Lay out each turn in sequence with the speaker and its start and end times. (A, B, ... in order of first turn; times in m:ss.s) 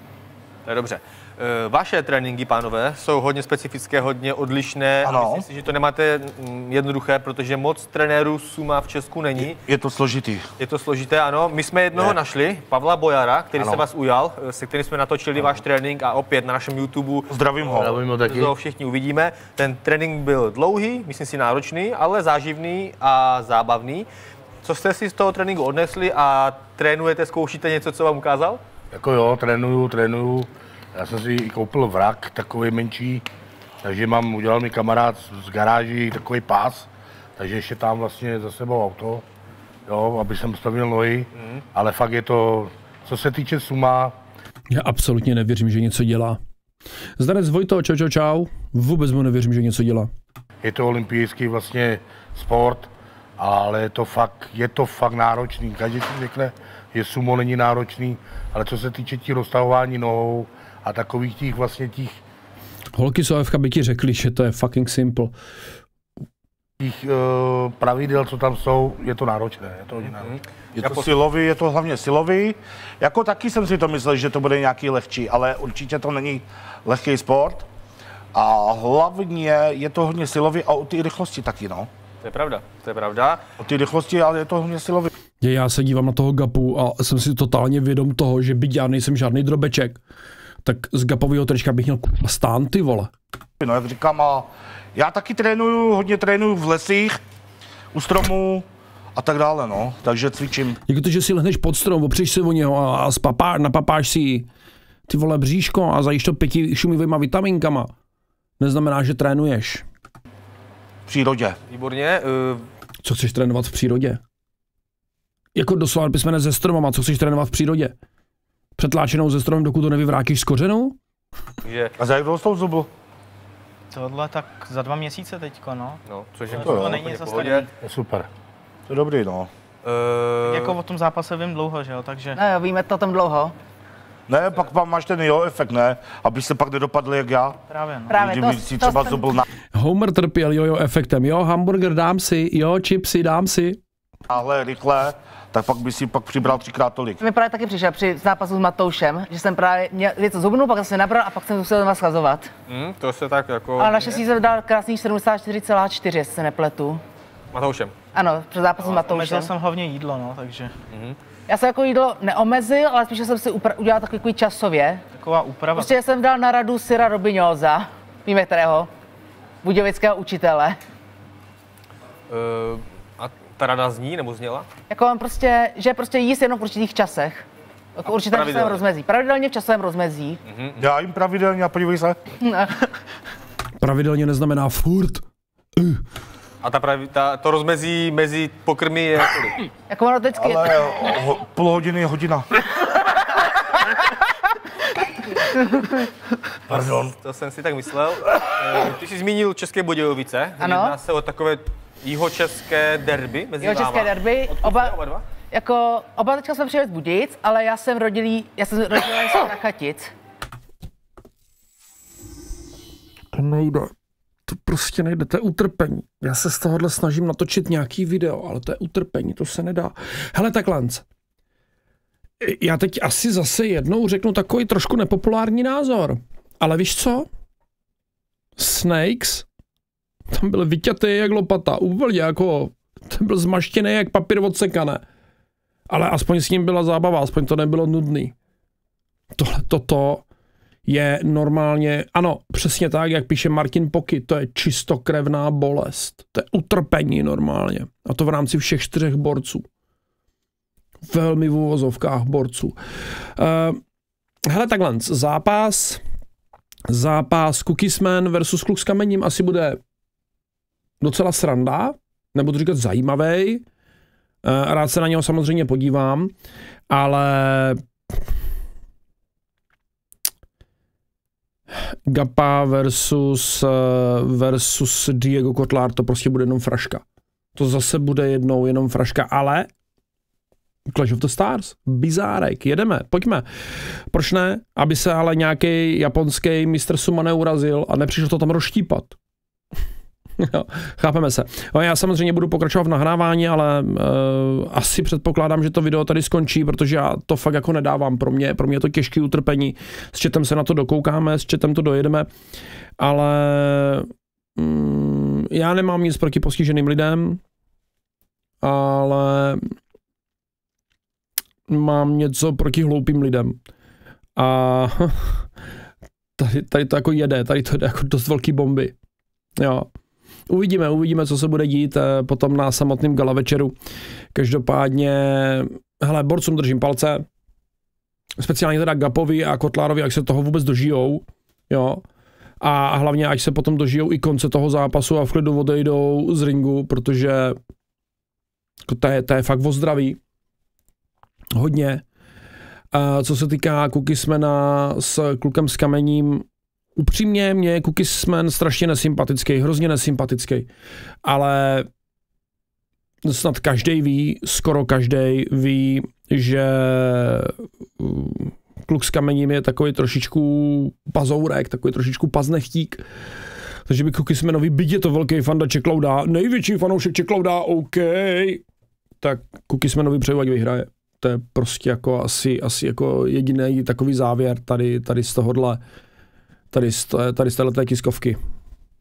0:00.7-0:09.6 A
0:05.0-0:05.4 B
0:09.5-0:10.5 B
0:10.6-0:17.3 A
0:17.3-0:18.0 B
0:17.8-0:18.5 C
0:18.2-0:24.1 A
0:24.6-0:28.6 A
0:28.9-0:33.2 C
0:33.8-0:39.2 C
0:39.9-0:44.1 C
0:44.7-0:46.4 D
0:47.2-0:50.1 D
0:50.6-1:02.2 C
1:02.9-1:05.3 D
1:06.8-1:10.4 C
1:10.8-1:17.7 B
1:18.3-1:21.9 B
1:22.2-1:23.4 A
1:23.6-1:25.1 B
1:25.4-1:30.0 D
1:30.6-1:33.1 D
1:33.6-1:37.2 B
1:37.9-1:40.8 B
1:40.9-1:44.5 D
1:45.1-1:47.9 D
1:48.6-1:49.8 D
1:51.1-1:51.6 B
1:51.7-1:52.6 A
1:53.0-1:54.2 D
1:55.6-1:58.0 D
1:58.8-2:01.0 D
2:01.6-2:01.9 A
2:02.0-2:02.9 B
2:03.9-2:06.0 E
2:06.1-2:07.7 A
2:06.5-2:07.7 E
2:06.6-2:07.0 B
2:07.8-2:08.3 C
2:08.9-2:09.5 B
2:09.8-2:10.8 A
2:10.4-2:12.4 E
2:12.4-2:13.6 F
2:14.3-2:17.6 B
2:17.7-2:18.1 E
2:18.1-2:19.4 F
2:18.1-2:19.4 B
2:19.7-2:23.8 D
2:24.3-2:27.2 B
2:27.2-2:32.5 F
2:32.7-2:34.2 A
2:33.8-2:37.0 F
2:37.5-2:37.9 A
2:38.1-2:39.5 F
2:39.0-2:40.8 E
2:40.9-2:41.2 A
2:41.5-2:45.0 F
2:45.2-2:46.0 E
2:45.7-2:48.9 F
2:49.6-2:50.8 F
2:52.3-2:54.7 A
2:54.9-3:00.4 F
2:58.1-2:58.8 A
3:00.5-3:00.8 A
3:00.8-3:02.2 B
3:02.4-3:02.9 F
3:03.8-3:05.2 D
3:05.8-3:06.0 D
3:06.6-3:09.7 A
3:09.9-3:11.0 F
3:10.4-3:12.5 B
3:16.7-3:17.1 B
3:16.7-3:25.2 A
3:20.6-3:21.0 F
3:23.6-3:25.0 F
3:25.5-3:30.1 F
3:33.3-3:33.9 D
3:34.5-3:41.0 D
3:42.4-3:47.3 D
3:48.6-3:49.5 D
3:50.3-3:55.0 D
3:55.9-3:58.3 D
3:59.4-4:00.2 D
4:00.9-4:09.6 D
4:11.0-4:12.8 D
4:13.4-4:13.8 D
4:14.5-4:16.0 D
4:16.9-4:19.8 D
4:21.0-4:23.6 D
4:24.4-4:26.3 D
4:26.9-4:27.8 D
4:31.8-4:37.0 D
4:37.6-4:39.7 D
4:40.9-4:43.4 D
4:44.1-4:49.2 D
4:50.4-5:02.3 D
5:03.0-5:07.4 D
5:08.6-5:09.7 D
5:11.7-5:13.6 D
5:14.4-5:15.5 D
5:16.4-5:19.0 D
5:19.6-5:19.9 D
5:20.5-5:23.8 D
5:24.3-5:27.2 D
5:28.4-5:32.0 D
5:32.6-5:37.6 D
5:38.9-5:40.2 D
5:41.6-5:42.0 D
5:42.9-5:46.4 D
5:47.0-5:50.7 D
5:51.2-5:51.9 D
5:53.2-6:03.0 D
6:03.9-6:08.6 D
6:09.2-6:15.8 D
6:16.7-6:18.4 D